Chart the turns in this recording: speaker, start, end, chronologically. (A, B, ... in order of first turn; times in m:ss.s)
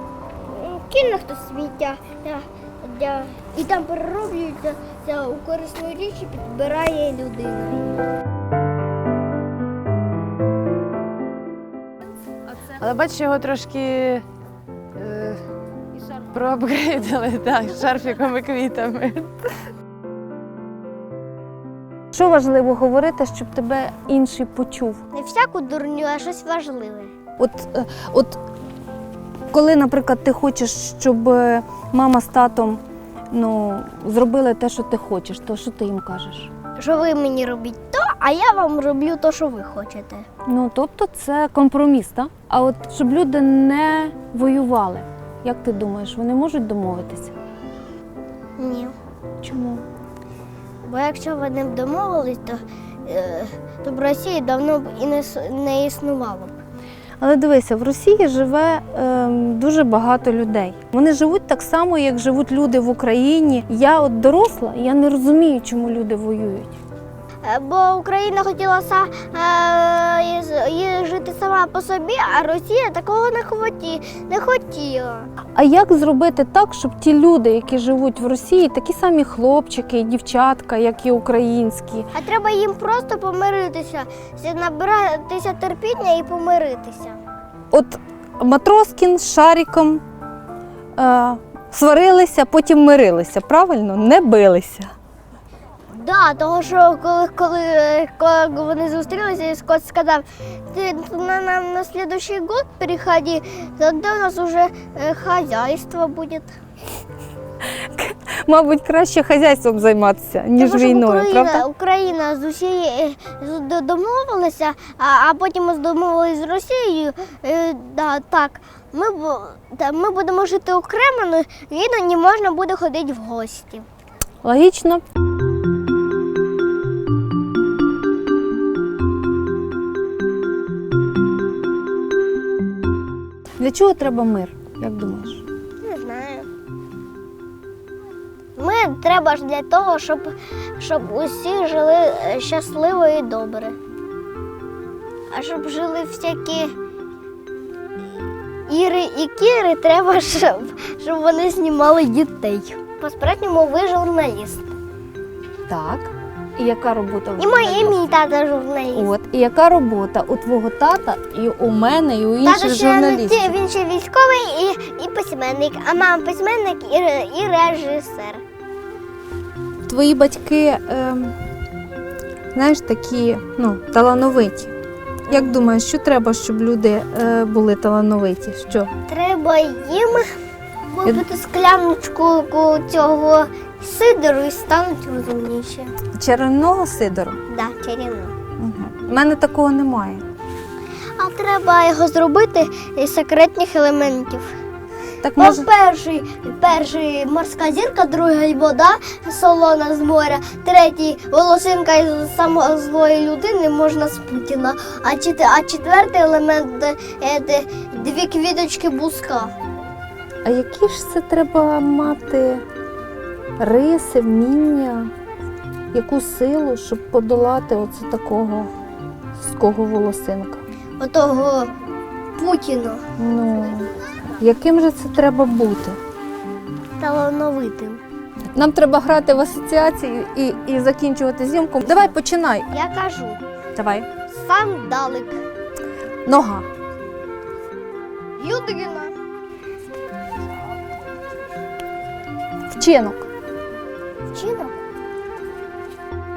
0:00.4-0:08.0 A
0:12.7-0:14.2 B
0:15.0-0:15.4 B
0:16.0-0:19.5 B
0:22.1-0:25.0 C
0:25.1-0:27.1 A
0:27.4-0:28.4 C
0:29.5-0:36.5 C
0:36.8-0:40.3 A
0:40.5-0:47.3 C
0:48.6-0:49.0 A
0:49.4-0:49.8 C
0:50.8-0:56.5 A
0:57.2-1:06.7 C
1:07.4-1:15.3 A
1:15.6-1:22.1 C
1:22.1-1:27.2 A
1:27.7-1:30.0 C
1:31.0-1:34.9 C
1:35.9-1:46.5 A
1:48.0-1:51.7 C
1:50.6-2:03.8 A
2:04.4-2:05.0 C
2:13.6-2:15.4 C
2:15.8-2:16.5 A
2:18.6-2:23.8 A
2:25.3-2:26.7 A
2:28.7-2:34.7 A
2:35.7-2:38.0 C
2:37.4-2:39.1 A
2:39.0-2:43.6 C
2:42.4-2:48.4 A
2:49.9-2:51.4 C
2:52.5-2:54.7 C
2:55.3-2:55.6 A
2:55.3-2:58.9 C
2:59.1-3:00.3 A
3:00.9-3:05.9 A
3:06.2-3:07.4 C
3:07.5-3:08.3 A
3:08.6-3:10.2 C
3:11.2-3:14.5 A
3:15.2-3:15.7 C
3:15.4-3:29.5 A
3:30.4-3:32.6 C
3:33.6-3:35.1 C
3:35.9-3:38.7 C
3:39.4-3:40.6 C
3:41.0-3:41.7 A
3:42.4-3:43.0 A
3:43.2-3:46.0 C
3:47.0-3:48.0 A
3:48.6-3:52.7 C
3:52.7-3:53.4 A
3:53.8-3:54.1 C
3:54.3-3:55.4 A
3:56.3-3:56.7 C
3:58.4-3:59.1 A
4:02.7-4:03.3 C
4:04.3-4:04.8 A